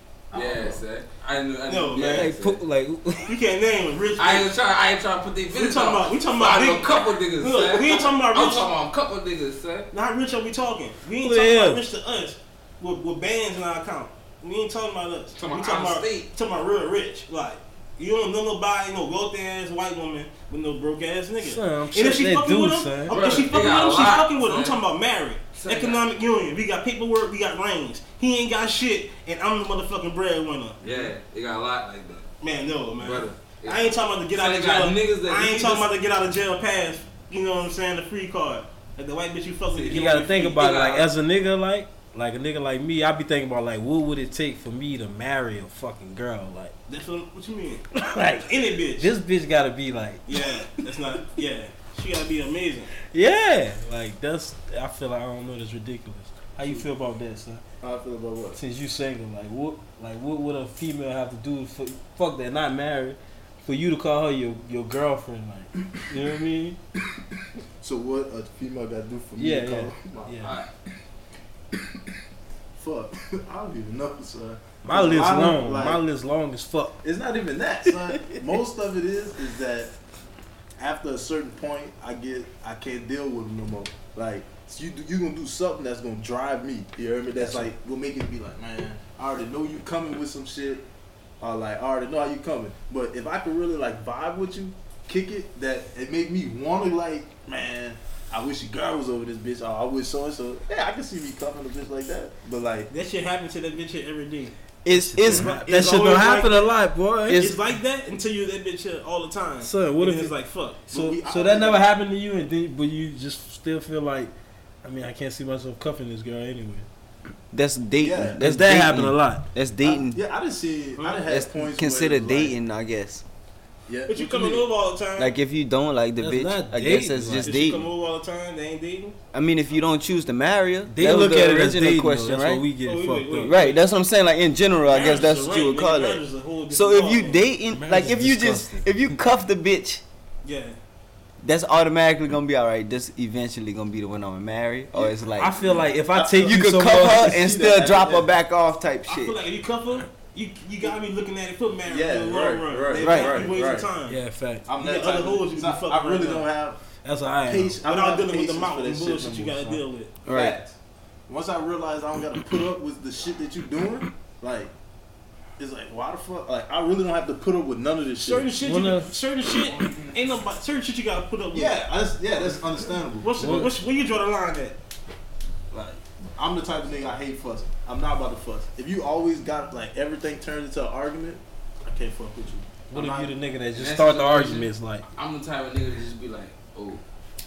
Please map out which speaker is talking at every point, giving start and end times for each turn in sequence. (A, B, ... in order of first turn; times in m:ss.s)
0:00.3-0:00.8 A
0:00.3-0:02.6 B
0:01.7-0:02.3 C
0:02.0-0:03.4 D
0:03.3-0:04.5 C
0:04.2-0:09.9 B
0:05.5-0:08.7 C
0:09.9-0:31.1 C
0:11.2-0:11.8 E
0:15.4-0:16.3 B
0:21.4-0:23.2 E
0:23.1-0:24.8 B
0:25.6-0:26.1 B
0:30.8-0:32.3 B
0:32.4-0:40.7 C
0:33.0-0:35.9 B
0:39.7-0:41.1 B
0:39.8-0:46.8 E
0:46.9-0:47.9 C
0:47.9-0:50.4 E
0:48.4-0:49.1 C
0:50.3-0:52.9 C
0:53.1-0:57.6 E
0:57.8-0:58.6 A
0:58.6-1:06.8 E
1:07.8-1:10.4 A
1:09.4-1:10.6 E
1:10.4-1:10.7 B
1:12.8-1:16.0 A
1:14.8-1:17.0 E
1:17.0-1:19.9 A
1:20.8-1:30.8 A
1:31.4-1:42.9 A
1:42.9-1:44.6 C
1:44.8-1:45.6 D
1:44.9-1:47.5 E
1:45.3-1:45.6 A
1:45.6-1:46.7 C
1:47.3-1:50.9 C
1:49.6-1:50.3 E
1:50.9-1:56.9 E
1:50.9-1:51.9 A
1:57.5-2:00.2 D
1:58.0-1:58.4 A
1:58.4-1:59.5 E
1:59.8-2:02.6 A
2:01.3-2:03.2 D
2:03.9-2:04.6 A
2:04.1-2:05.4 C
2:05.2-2:07.9 D
2:06.2-2:07.6 E
2:07.4-2:09.2 C
2:09.3-2:12.6 D
2:10.9-2:13.6 E
2:12.8-2:13.9 C
2:13.5-2:20.0 D
2:14.9-2:17.4 C
2:17.7-2:18.9 E
2:20.4-2:20.8 C
2:21.4-2:25.6 D
2:24.9-2:28.3 A
2:25.4-2:27.5 E
2:26.4-2:29.4 D
2:29.1-2:34.2 C
2:31.9-2:33.9 A
2:33.0-2:33.5 D
2:34.1-2:34.7 E
2:34.7-2:36.8 A
2:34.8-2:36.5 C
2:37.0-2:37.8 E
2:37.4-2:40.7 A
2:37.8-2:40.1 C
2:40.3-2:40.6 D
2:41.3-2:44.7 A
2:45.6-2:48.5 A
2:48.2-2:51.8 C
2:48.6-2:49.1 E
2:49.7-2:50.2 A
2:51.5-2:53.6 A
2:53.2-2:54.8 C
2:53.4-2:53.7 E
2:55.7-3:03.3 A
3:02.9-3:05.0 E
3:03.7-3:07.0 B